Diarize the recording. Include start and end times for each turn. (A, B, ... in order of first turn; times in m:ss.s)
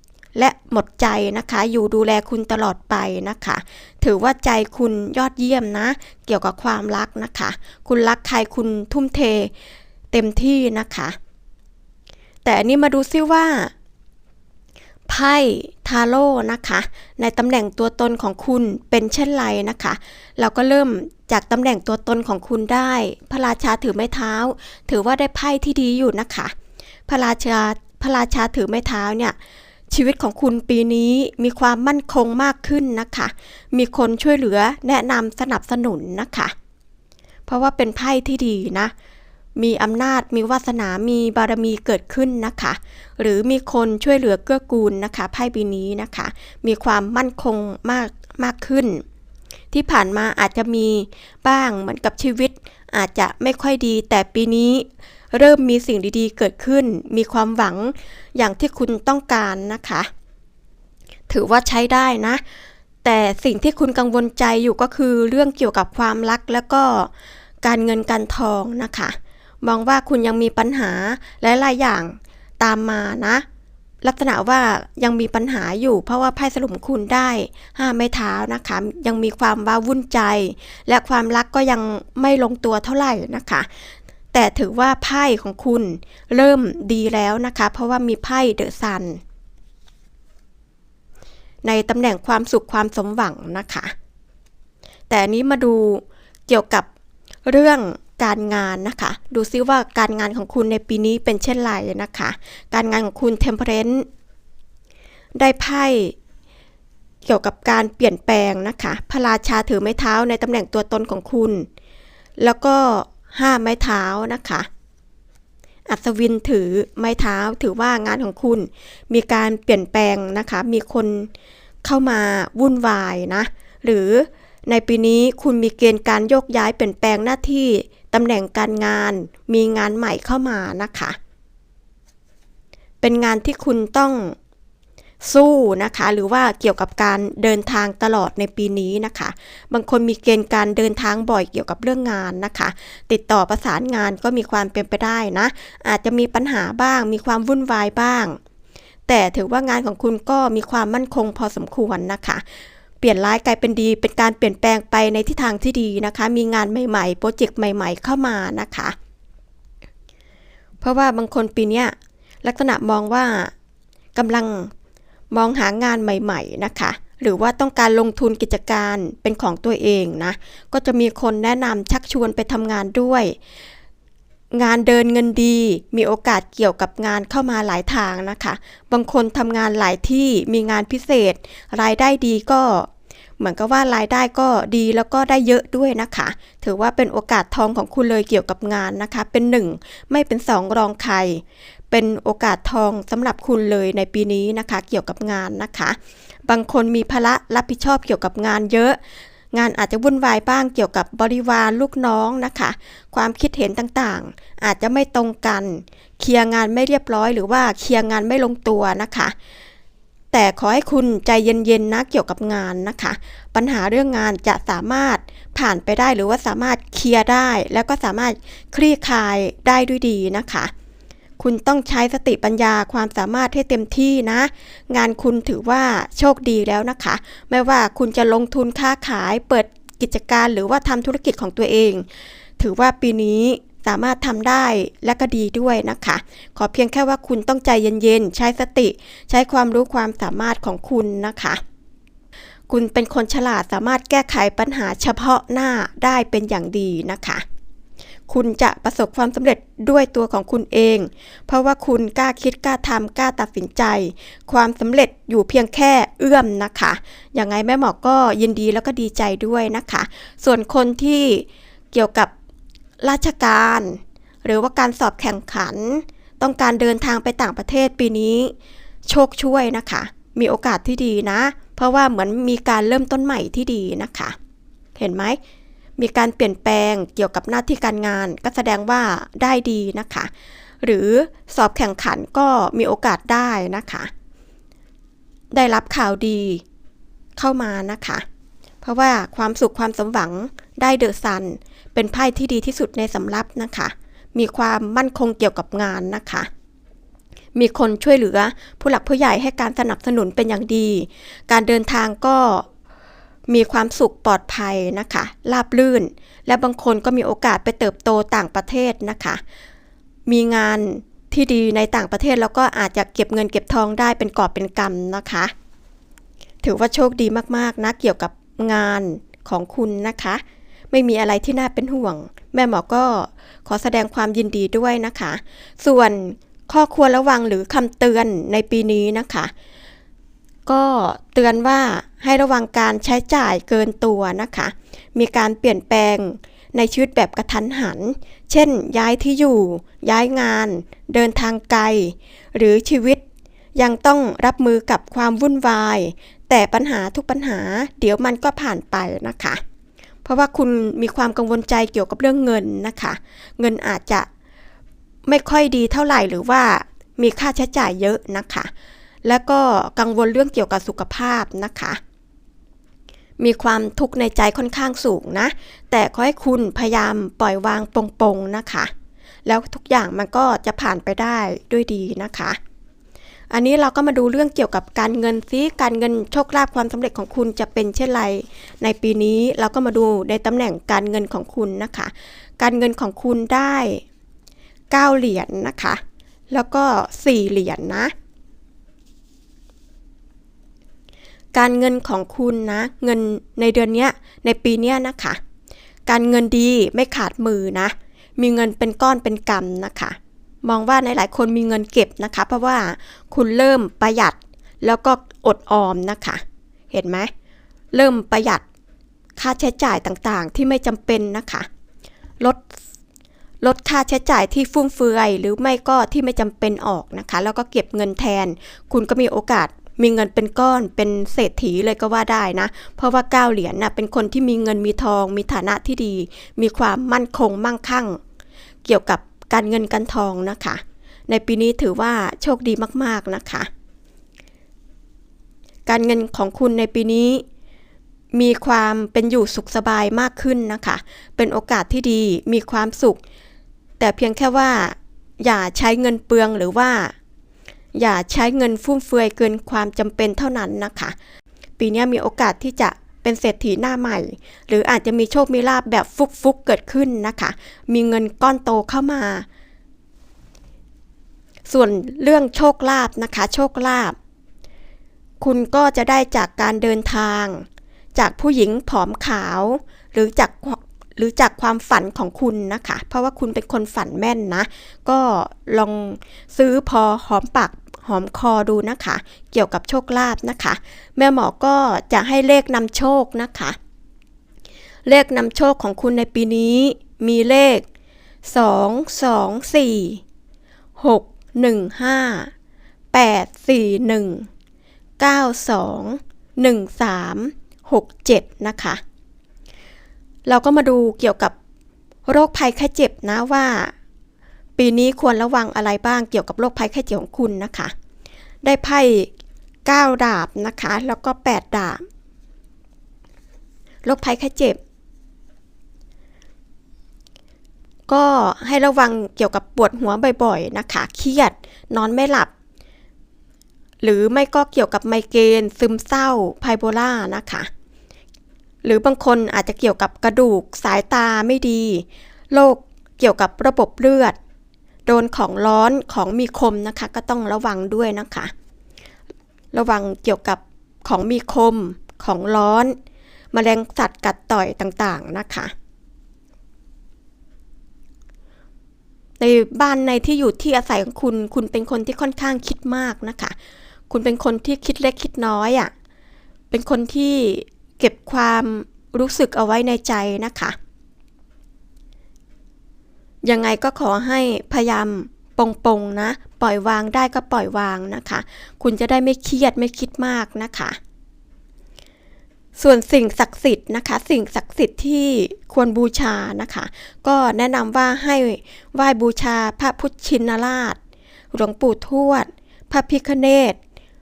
0:00.4-0:09.5 A
0:10.1-0:11.2 A
0:12.4-0:13.7 A
0:15.1-0:26.5 A
0:27.1-0:29.4 A
0:29.9-0:36.5 A
0:37.5-0:38.9 A
0:39.6-0:49.0 A
0:49.7-1:00.1 A
1:01.3-1:02.4 A
1:03.0-1:07.1 A
1:07.6-1:13.4 A
1:14.0-1:23.7 A
1:24.3-1:29.2 A
1:31.6-1:33.9 A
1:35.1-1:36.9 A
1:37.4-1:44.1 A
1:45.4-1:46.1 A
1:47.2-1:51.7 A
1:52.4-1:54.7 A
1:55.9-2:01.3 A
2:01.8-2:11.2 A
2:13.0-2:14.4 A
2:15.2-2:28.4 A
2:29.1-2:32.4 A
2:33.0-2:39.0 A
2:40.8-2:43.5 A
2:44.2-2:44.7 A
2:45.3-2:53.4 A
2:54.5-3:19.0 A
3:19.5-3:29.3 A
3:30.3-3:40.7 A
3:41.4-3:52.1 A
3:52.6-4:01.6 A
4:02.7-4:07.4 A
4:08.3-4:22.3 A
4:23.0-4:28.5 A
4:29.1-4:34.4 A
4:35.0-4:35.4 A
4:36.0-4:40.3 A
4:40.8-4:44.1 A
4:45.5-4:46.6 A
4:47.4-4:48.2 A
4:48.8-4:56.5 A
4:57.6-5:02.6 A
5:03.5-5:09.4 A
5:10.3-5:15.5 A
5:16.6-5:29.5 A
5:30.7-5:43.2 A
5:43.8-5:49.6 A
5:50.2-5:54.3 A
5:55.3-5:58.7 A
5:59.2-6:02.0 A
6:03.4-6:08.9 A
6:09.5-6:12.6 A
6:13.5-6:24.0 A
6:24.9-6:26.0 A
6:26.5-6:28.1 A
6:31.5-6:35.4 A
6:36.1-6:47.3 A
6:47.9-6:48.6 A
6:49.4-6:51.7 A
6:53.6-7:08.2 A
7:08.8-7:13.7 A
7:15.9-7:17.4 A
7:18.3-7:23.2 A
7:24.0-7:27.1 A
7:28.0-7:31.2 A
7:31.8-7:39.5 A
7:41.7-7:44.2 A
7:45.4-8:03.8 A
8:05.1-8:07.8 A
8:08.4-8:10.2 A
8:11.0-8:12.5 A
8:13.1-8:14.5 A
8:15.2-8:19.0 A
8:20.5-8:21.5 A
8:22.3-8:23.9 A
8:24.8-8:27.9 A
8:28.6-8:29.3 A
8:29.8-8:32.0 A
8:34.0-8:34.8 A
8:38.1-8:42.5 A
8:44.0-8:47.7 A
8:48.8-8:54.4 A
8:55.1-8:58.5 A
8:59.7-9:03.0 A
9:03.5-9:05.7 A
9:09.4-9:13.6 A
9:14.1-9:15.9 A
9:16.7-9:20.8 A
9:23.4-9:31.0 A
9:32.8-9:41.0 A
9:41.5-9:43.8 A